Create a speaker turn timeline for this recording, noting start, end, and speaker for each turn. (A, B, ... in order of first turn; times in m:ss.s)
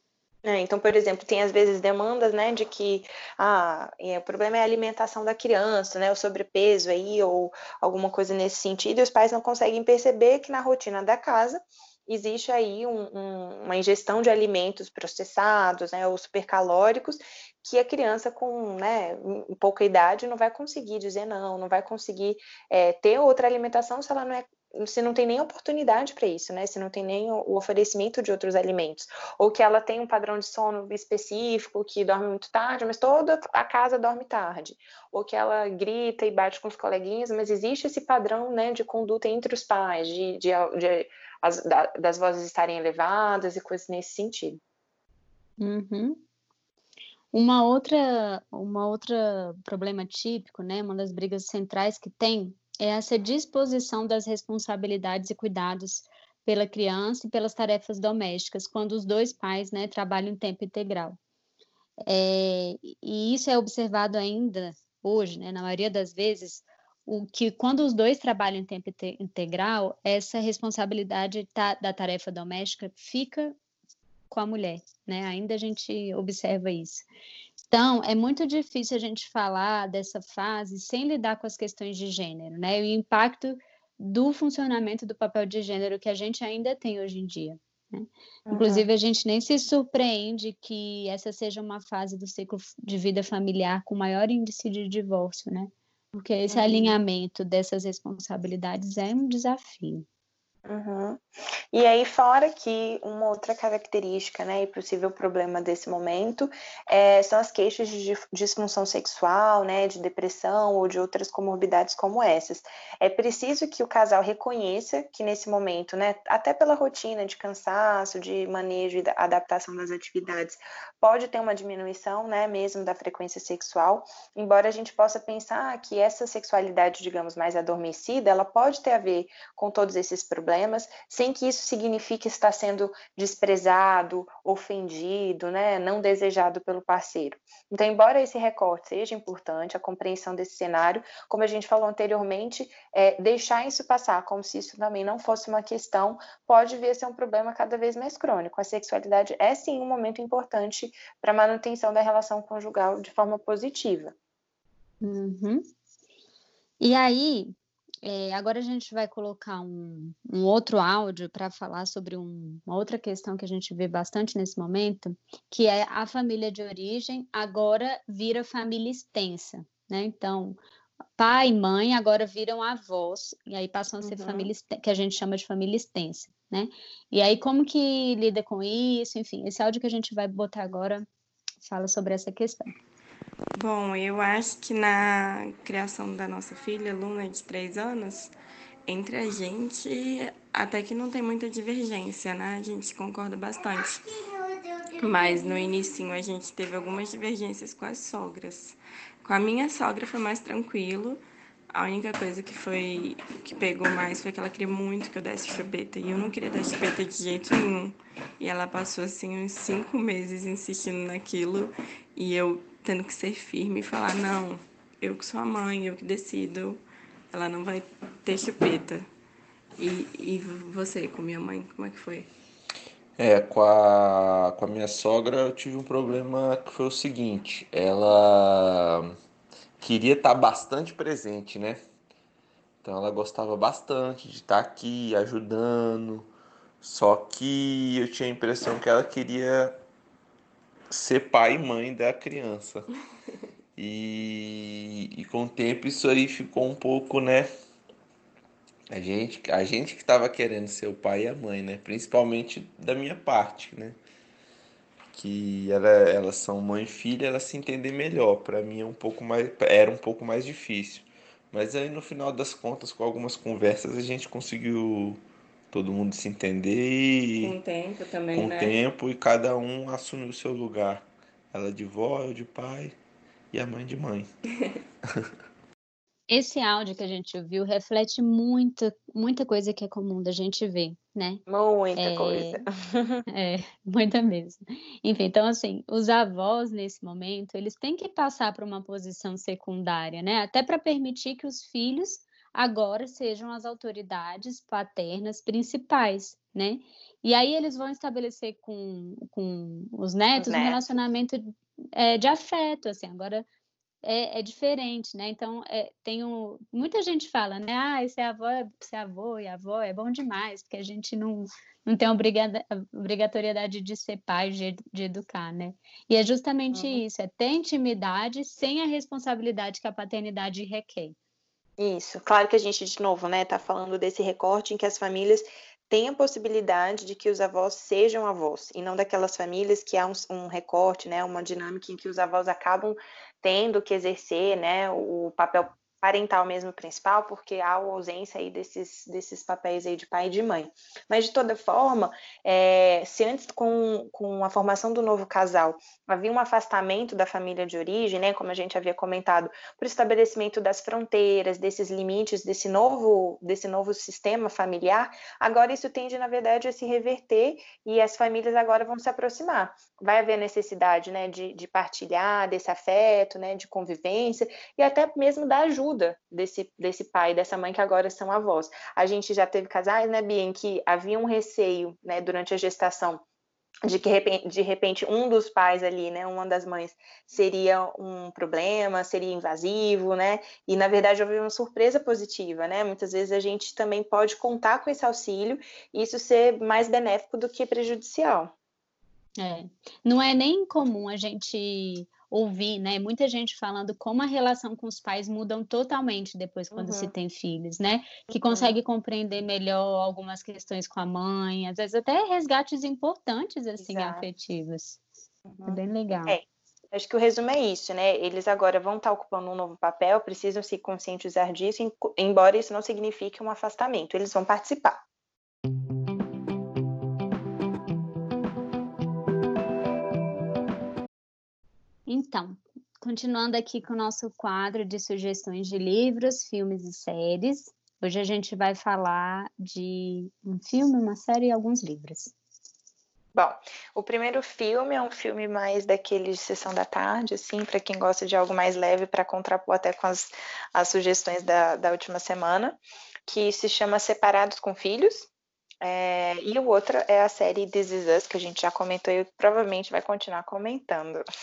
0:00.4-0:44.6 A
0:45.6-0:46.2 B
0:47.3-1:01.2 B
1:02.0-1:13.5 B
1:14.3-1:17.0 B
1:17.7-1:40.0 B
1:28.5-1:28.8 A
1:36.5-1:36.9 A
1:40.7-2:34.1 A
2:35.0-2:35.7 B
2:36.8-2:37.5 B
2:38.0-2:50.6 B
2:51.2-3:01.0 B
2:54.0-2:54.5 A
3:01.6-3:02.7 B
3:03.5-3:08.3 C
3:08.8-3:14.1 C
3:14.9-3:21.2 C
3:21.7-3:39.1 C
3:39.8-3:42.3 C
3:43.2-3:49.2 D
3:49.8-3:51.8 D
3:52.8-3:56.3 D
3:56.8-3:59.8 D
4:00.9-4:02.9 D
4:03.8-4:07.5 D
4:08.9-4:14.0 D
4:15.1-4:27.6 D
4:27.4-4:28.8 C
4:28.3-4:33.0 D
4:33.5-4:34.3 D
4:36.3-4:41.4 B
4:41.5-4:43.2 A
4:42.0-4:42.6 B
4:43.3-5:03.4 B
5:00.4-5:01.0 A
5:04.0-5:21.1 B
5:16.7-5:17.0 A
5:21.8-6:13.2 A
6:13.8-6:28.5 A
6:29.4-6:45.0 B
6:36.7-6:37.1 A
6:38.3-6:38.7 A
6:43.8-6:44.2 A
6:45.4-6:55.0 A
6:45.6-6:46.4 B
7:02.1-7:12.3 B
7:13.3-7:25.3 A
7:25.8-7:31.2 A